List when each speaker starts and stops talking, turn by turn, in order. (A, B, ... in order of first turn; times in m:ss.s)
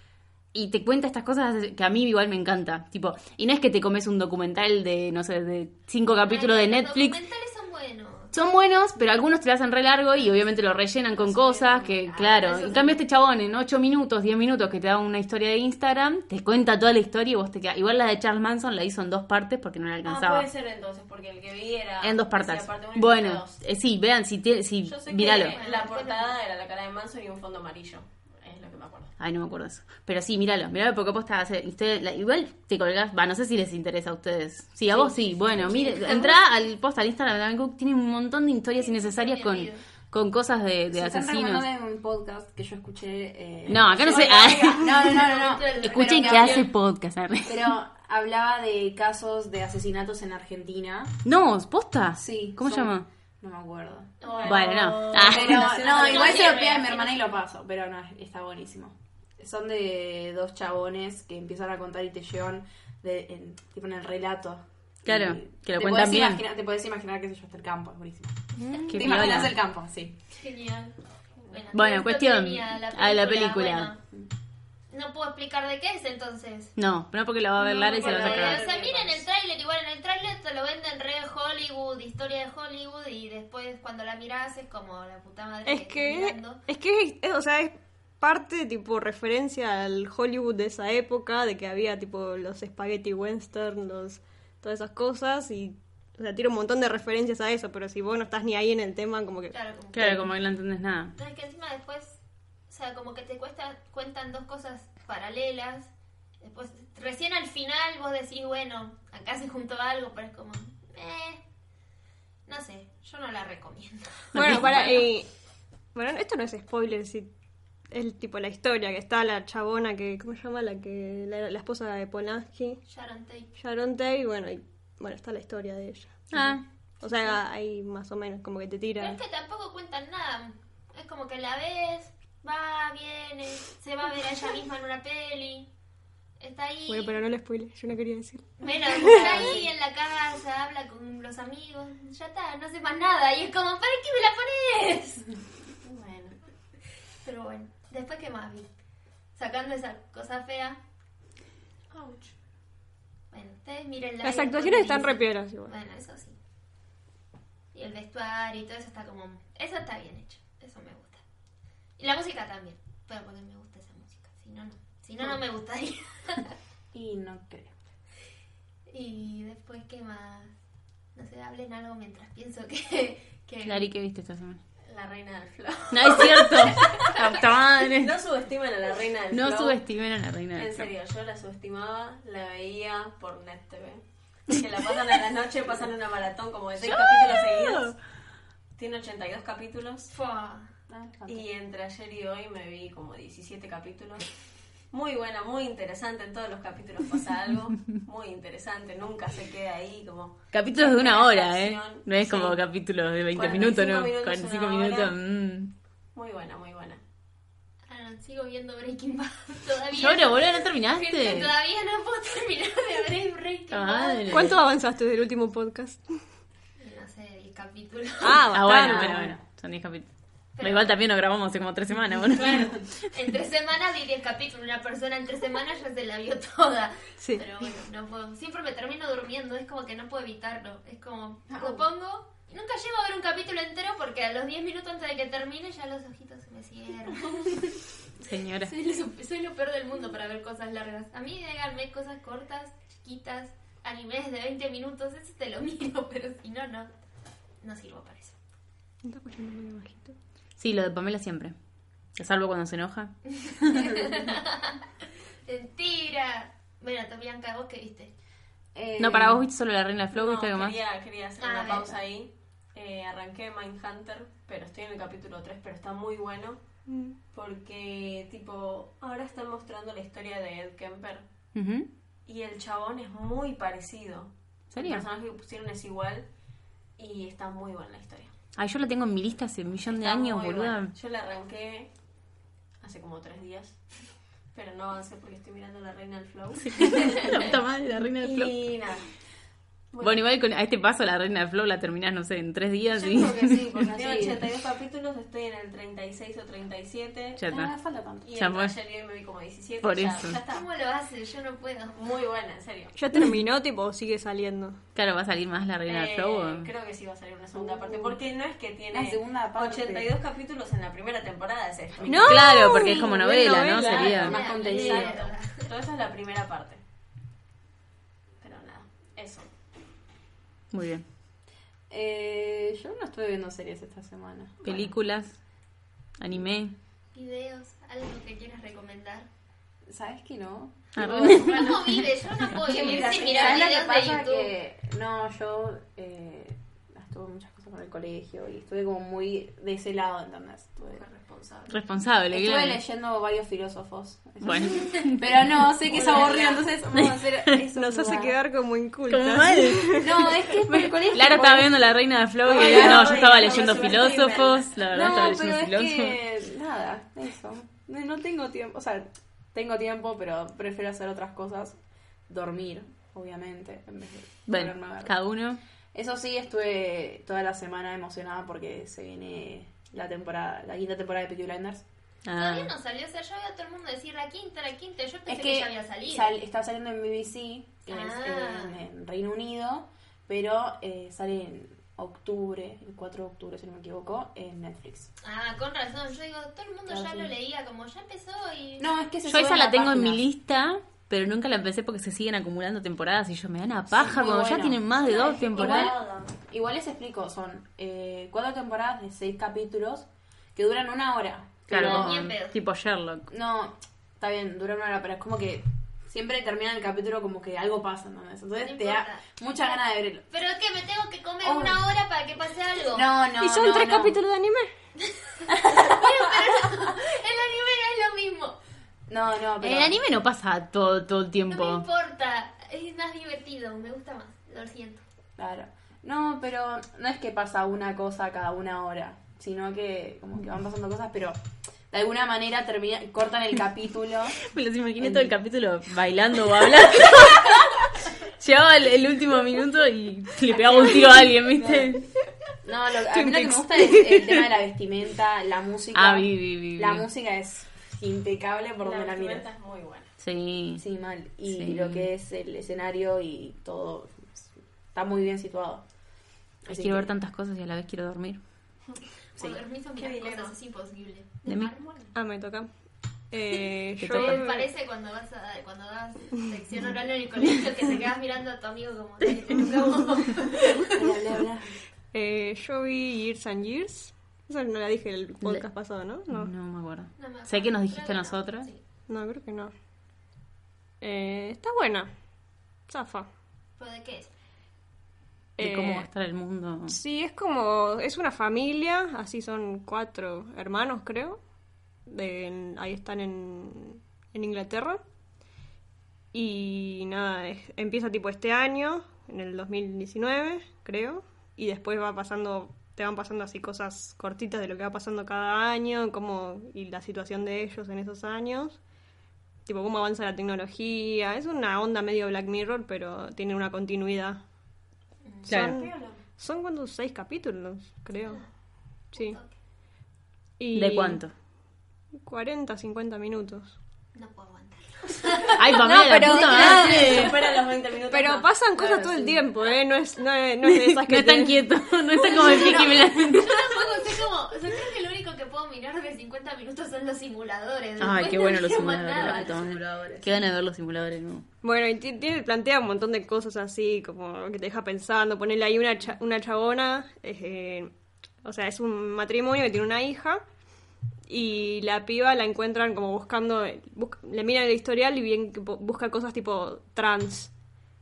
0:00.5-0:07.2 A
0:06.2-0:08.4 B
0:08.3-0:20.5 A
0:11.2-0:12.9 C
0:11.8-0:13.0 B
0:20.0-0:23.6 C
0:22.0-0:25.5 A
0:24.8-0:29.1 C
0:25.3-0:26.4 B
0:29.2-0:41.6 A
0:34.9-0:36.0 D
0:35.6-0:36.4 B
0:38.8-0:39.8 B
0:40.9-0:46.7 D
0:43.7-0:45.3 A
0:44.0-0:45.4 C
0:45.0-0:46.6 B
0:45.8-0:47.7 A
0:46.2-0:46.6 C
0:47.4-0:51.2 D
0:51.2-0:53.1 A
0:52.1-0:54.1 D
0:54.2-0:57.2 B
0:54.2-0:56.8 C
0:54.4-0:55.8 A
0:55.1-1:10.2 D
1:05.0-1:06.4 A
1:08.6-1:09.2 B
1:08.9-1:09.5 A
1:10.4-1:10.9 B
1:11.5-1:14.0 B
1:11.7-1:13.9 A
1:14.9-1:16.7 B
1:16.8-1:18.6 A
1:17.6-1:19.2 C
1:18.0-1:26.6 B
1:25.6-1:39.6 E
1:39.5-1:40.3 B
1:39.9-1:41.1 A
1:41.1-1:51.4 B
1:52.5-1:54.3 B
1:54.3-1:55.0 A
1:54.3-1:55.3 E
1:55.9-1:57.3 E
1:57.9-2:02.8 E
2:02.9-2:03.5 B
2:03.6-2:09.2 E
2:06.3-2:06.6 A
2:09.0-2:15.7 B
2:16.4-2:17.2 B
2:16.9-2:19.3 E
2:18.6-2:25.3 B
2:19.0-2:19.7 C
2:25.8-2:26.4 C
2:27.2-2:28.7 B
2:29.3-2:30.8 B
2:31.9-2:32.3 C
2:33.3-2:36.4 B
2:34.2-2:35.7 E
2:37.7-2:41.2 B
2:42.0-2:46.5 B
2:46.9-2:47.7 D
2:48.9-2:50.5 B
2:51.1-2:53.9 B
2:53.6-2:54.6 A
2:54.8-2:57.1 C
2:55.9-2:58.1 A
2:57.9-2:59.8 C
2:59.3-3:00.9 A
3:00.5-3:08.0 C
3:06.8-3:07.9 A
3:08.8-3:10.1 C
3:10.1-3:10.7 B
3:10.9-3:11.4 D
3:11.3-3:14.3 C
3:14.9-3:22.6 C
3:20.5-3:25.7 A
3:23.3-3:25.1 C
3:26.1-3:27.0 C
3:27.9-3:34.5 B
3:30.0-3:31.5 A
3:33.7-3:34.6 A
3:34.3-3:36.1 E
3:36.8-3:38.5 B
3:38.2-3:39.2 E
3:38.5-3:42.9 A
3:38.8-3:39.4 D
3:40.6-3:41.0 B
3:42.4-3:57.6 B
3:47.2-3:47.4 E
3:51.5-3:51.8 C
3:58.2-3:58.7 A
3:58.6-4:06.9 B
4:07.6-4:08.4 B
4:09.0-4:10.1 E
4:10.6-4:11.5 A
4:12.2-4:13.1 A
4:13.3-4:14.8 B
4:15.4-4:18.1 B
4:18.7-4:19.4 D
4:19.0-4:20.8 A
4:20.1-4:26.6 C
4:21.4-4:21.9 B
4:26.9-4:27.2 E
4:27.3-4:31.3 C
4:31.5-4:31.9 A
4:32.2-4:36.3 C
4:34.7-4:35.0 A
4:37.0-4:38.3 C
4:38.6-4:40.9 A
4:39.9-4:41.9 C
4:42.8-4:43.8 C
4:44.5-4:47.6 C
4:46.6-4:48.5 A
4:48.2-4:49.1 C
4:49.9-4:50.2 C
4:50.0-4:53.7 A
4:52.9-4:57.4 C
4:53.4-4:54.4 D
4:57.4-4:57.7 A
4:57.5-4:58.3 D
4:58.2-5:00.7 C
4:58.4-4:58.7 A
4:59.8-5:00.4 A
5:00.5-5:02.0 B
5:01.9-5:02.9 C
5:03.0-5:04.8 E
5:04.9-5:06.7 A
5:05.8-5:16.8 C
5:07.5-5:08.2 D
5:08.9-5:10.1 D
5:12.0-5:12.5 D
5:12.0-5:14.0 E
5:12.3-5:14.4 A
5:13.8-5:15.2 D
5:14.2-5:15.7 B
5:18.4-5:19.5 C
5:20.7-5:21.0 A
5:21.9-5:24.8 D
5:24.6-5:25.4 A
5:26.2-5:26.8 A
5:27.1-5:29.3 B
5:29.9-5:31.8 D
5:30.9-5:32.1 A
5:31.3-5:34.5 B
5:32.4-5:41.0 D
5:40.8-5:41.8 C
5:41.7-5:42.8 A
5:42.3-5:48.3 D
5:44.4-5:45.2 A
5:45.9-5:46.7 C
5:46.9-5:47.2 A
5:47.7-5:50.1 E
5:49.1-5:50.1 A
5:50.0-5:51.8 D
5:50.7-5:56.2 A
5:52.4-5:54.2 D
5:52.4-5:54.8 C
5:54.9-6:05.1 D
6:04.5-6:05.6 A
6:05.9-6:11.8 D
6:12.2-6:12.7 A
6:12.3-6:16.3 B
6:15.3-6:25.1 D
6:17.9-6:18.8 B
6:25.2-6:28.9 B
6:26.9-6:27.3 D
6:28.8-6:30.2 D
6:29.3-6:35.9 A
6:33.9-6:34.8 D
6:34.9-6:36.3 C
6:35.5-6:42.3 D
6:41.7-6:43.3 A
6:41.7-6:42.6 B
6:43.3-6:50.2 D
6:48.6-6:53.1 B
6:51.4-6:51.8 D
6:52.9-6:54.2 D
6:53.4-6:54.7 E
6:55.0-6:58.6 B
6:55.5-6:56.0 D
6:59.1-7:00.0 D
6:59.6-7:01.8 A
7:01.5-7:05.0 B
7:05.4-7:11.4 D
7:11.9-7:14.4 D
7:14.4-7:22.0 A
7:15.0-7:15.3 D
7:21.6-7:21.9 C
7:22.6-7:29.5 D
7:23.1-7:24.1 E
7:25.9-7:27.1 A
7:28.8-7:30.1 C
7:30.2-7:30.8 A
7:30.8-7:35.8 D
7:31.5-7:32.1 A
7:36.6-7:37.1 D
7:36.7-7:38.4 A
7:39.4-7:42.1 B
7:40.0-7:40.5 C
7:41.4-7:41.7 A
7:42.1-7:42.7 E
7:43.3-7:44.7 E
7:44.0-7:44.4 A
7:44.1-7:50.5 B
7:50.9-7:51.7 D
7:52.1-7:56.5 E
7:56.3-7:58.7 A
7:57.2-7:58.8 B
7:59.1-7:59.7 E
8:01.0-8:02.1 E
8:02.9-8:03.3 E
8:03.8-8:04.3 B
8:05.6-8:06.1 E
8:05.6-8:07.0 A
8:06.9-8:11.4 E
8:12.1-8:15.0 E
8:16.3-8:28.8 E
8:29.6-8:34.4 E
8:35.2-8:35.5 B
8:35.5-8:38.4 E
8:35.5-8:35.8 A
8:35.5-8:36.2 C
8:38.2-8:38.5 B
8:39.1-8:39.5 B
8:40.6-8:41.2 E
8:40.7-8:41.3 A
8:42.2-8:43.7 E
8:44.1-8:45.6 B
8:45.6-8:47.4 A
8:45.8-8:47.3 E
8:46.2-8:49.5 C
8:48.1-8:51.6 E
8:50.6-8:53.6 A
8:52.2-8:59.5 B
8:58.0-9:01.4 A
8:59.1-9:00.3 D
9:01.6-9:07.9 E
9:08.4-9:10.4 E
9:11.3-9:17.5 E